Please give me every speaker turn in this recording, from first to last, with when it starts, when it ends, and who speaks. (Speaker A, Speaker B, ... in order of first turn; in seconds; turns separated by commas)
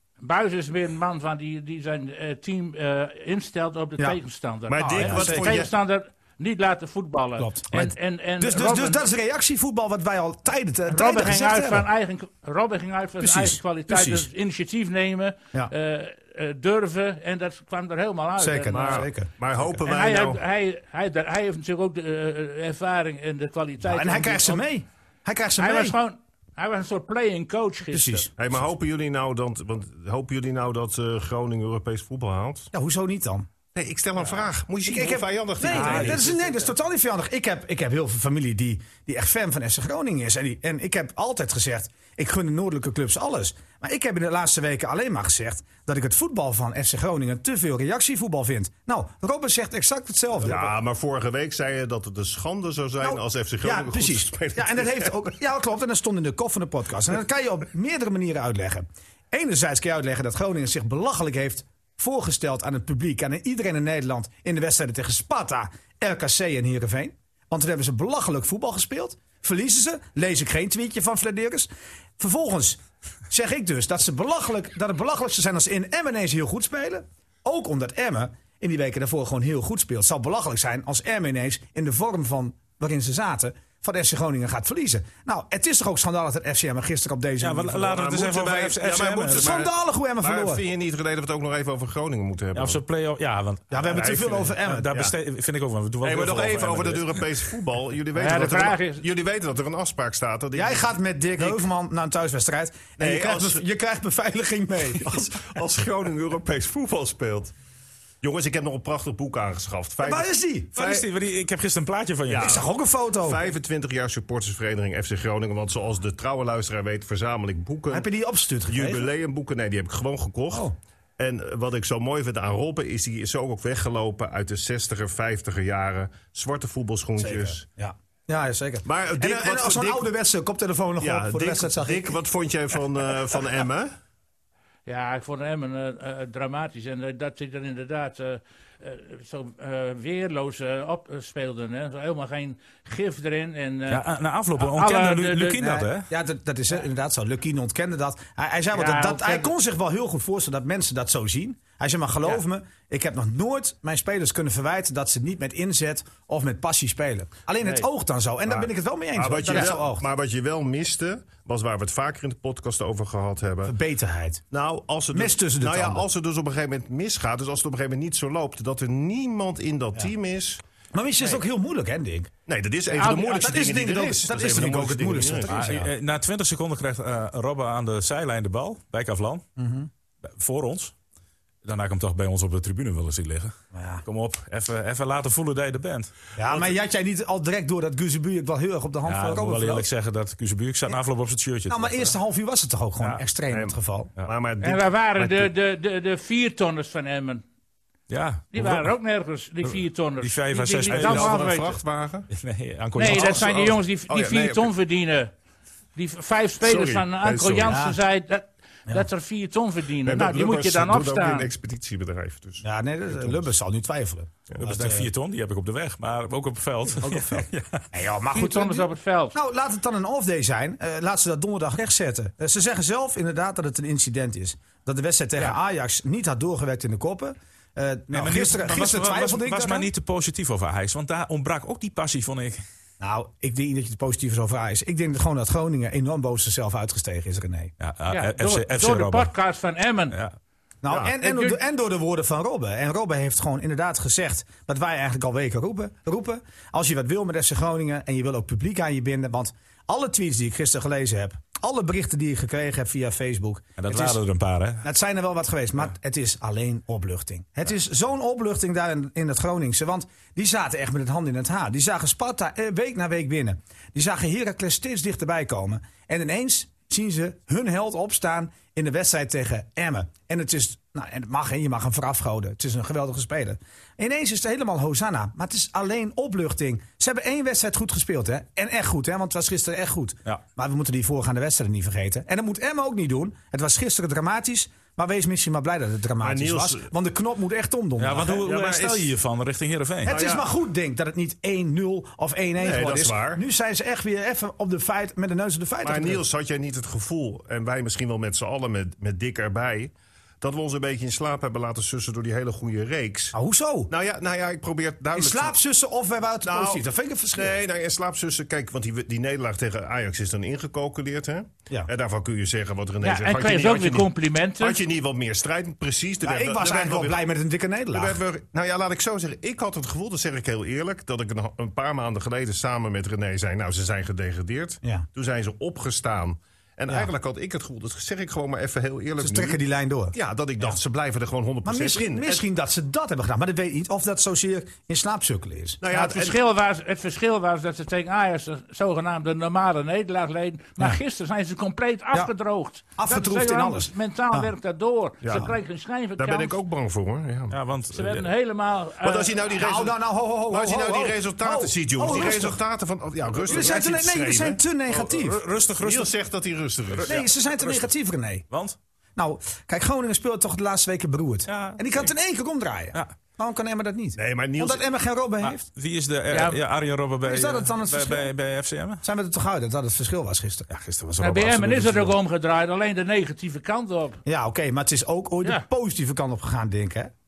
Speaker A: 0.2-9.0, Speaker B: 4.7-5.7, Speaker C: 4.8-5.7, Speaker C: 7.4-11.9, Speaker A: 10.9-19.1, Speaker C: 13.2-14.3, Speaker C: 18.4-19.8, Speaker B: 18.7-20.4, Speaker A: 19.8-24.6, Speaker C: 23.8-26.0, Speaker A: 25.6-28.3, Speaker C: 27.9-28.3, Speaker B: 28.4-32.7, Speaker C: 32.7-33.5, Speaker B: 33.7-36.4, Speaker C: 34.8-50.7, Speaker A: 35.7-36.3, Speaker B: 50.4-55.3, Speaker C: 53.0-88.0, Speaker D: 87.4-89.5, Speaker B: 87.9-92.8, Speaker C: 89.2-90.6, Speaker D: 92.5-97.2, Speaker C: 93.7-94.9, Speaker B: 93.8-95.1, Speaker B: 96.0-101.6, Speaker A: 98.1-99.0, Speaker C: 100.5-105.3, Speaker B: 103.0-103.6, Speaker B: 105.0-107.5, Speaker B: 108.2-111.0, Speaker C: 110.0-110.7, Speaker D: 110.7-112.6, Speaker B: 112.3-112.6, Speaker C: 112.4-113.4, Speaker B: 113.2-118.1, Speaker C: 117.9-119.1, Speaker B: 118.7-127.6, Speaker C: 127.2-132.2, Speaker B: 128.8-130.1, Speaker B: 131.0-133.9, Speaker A: 134.8-144.0, Speaker D: 143.9-146.1, Speaker A: 144.6-145.6, Speaker C: 145.5-160.0, Speaker A: 148.7-149.5, Speaker B: 158.6-163.7, Speaker C: 163.6-164.4, Speaker B: 164.5-170.6, Speaker C: 165.1-166.1, Speaker C: 170.9-172.3, Speaker B: 172.5-175.6, Speaker A: 172.9-173.6, Speaker C: 173.2-175.9, Speaker D: 175.5-179.4, Speaker C: 179.6-179.9, Speaker D: 180.2-180.9, Speaker D: 181.6-186.1, Speaker C: 183.7-184.0, Speaker C: 186.4-189.9, Speaker D: 189.1-192.1, Speaker C: 191.7-194.1, Speaker B: 193.5-195.5, Speaker A: 194.6-197.4, Speaker D: 198.1-198.9, Speaker A: 198.5-201.8, Speaker D: 199.6-201.4, Speaker B: 200.9-202.3, Speaker D: 202.3-203.4, Speaker A: 202.9-205.3, Speaker B: 203.1-204.7, Speaker A: 205.9-211.5, Speaker B: 206.6-207.8, Speaker C: 207.7-208.0, Speaker B: 210.0-212.7, Speaker C: 212.6-215.1, Speaker D: 214.6-217.8, Speaker C: 217.0-229.9, Speaker A: 218.3-219.3, Speaker D: 228.1-232.6, Speaker C: 233.0-237.7, Speaker D: 237.8-239.3, Speaker A: 238.1-240.2, Speaker D: 240.1-240.3, Speaker C: 240.8-254.2, Speaker B: 240.9-241.1, Speaker A: 241.2-241.6, Speaker D: 253.8-254.8, Speaker C: 254.8-288.5, Speaker B: 286.2-286.9, Speaker D: 288.0-290.1, Speaker B: 288.4-289.1, Speaker B: 290.1-290.5, Speaker C: 290.1-296.2, Speaker B: 292.6-293.4, Speaker B: 295.8-303.4, Speaker C: 303.3-303.9, Speaker B: 303.9-305.6, Speaker C: 305.1-307.6, Speaker B: 306.4-317.2, Speaker A: 313.0-314.8, Speaker C: 316.2-318.2, Speaker B: 317.9-329.6, Speaker C: 329.2-330.8, Speaker B: 330.1-332.4, Speaker C: 331.6-335.9, Speaker B: 335.8-336.4, Speaker A: 335.9-346.6, Speaker C: 342.9-344.5, Speaker B: 345.2-345.5, Speaker B: 346.2-347.6, Speaker D: 347.5-348.3, Speaker A: 347.9-349.6, Speaker B: 349.0-355.0, Speaker C: 349.6-352.6, Speaker C: 353.4-355.4, Speaker D: 355.0-356.1, Speaker B: 355.8-357.2, Speaker D: 356.9-357.9, Speaker C: 357.0-358.4, Speaker D: 358.5-358.8, Speaker C: 359.1-365.6, Speaker D: 361.5-362.1, Speaker B: 364.1-364.8, Speaker D: 365.4-369.0, Speaker A: 366.3-366.6, Speaker C: 367.2-368.3, Speaker C: 369.0-370.7, Speaker D: 370.7-372.2, Speaker A: 371.2-374.2, Speaker C: 374.2-377.1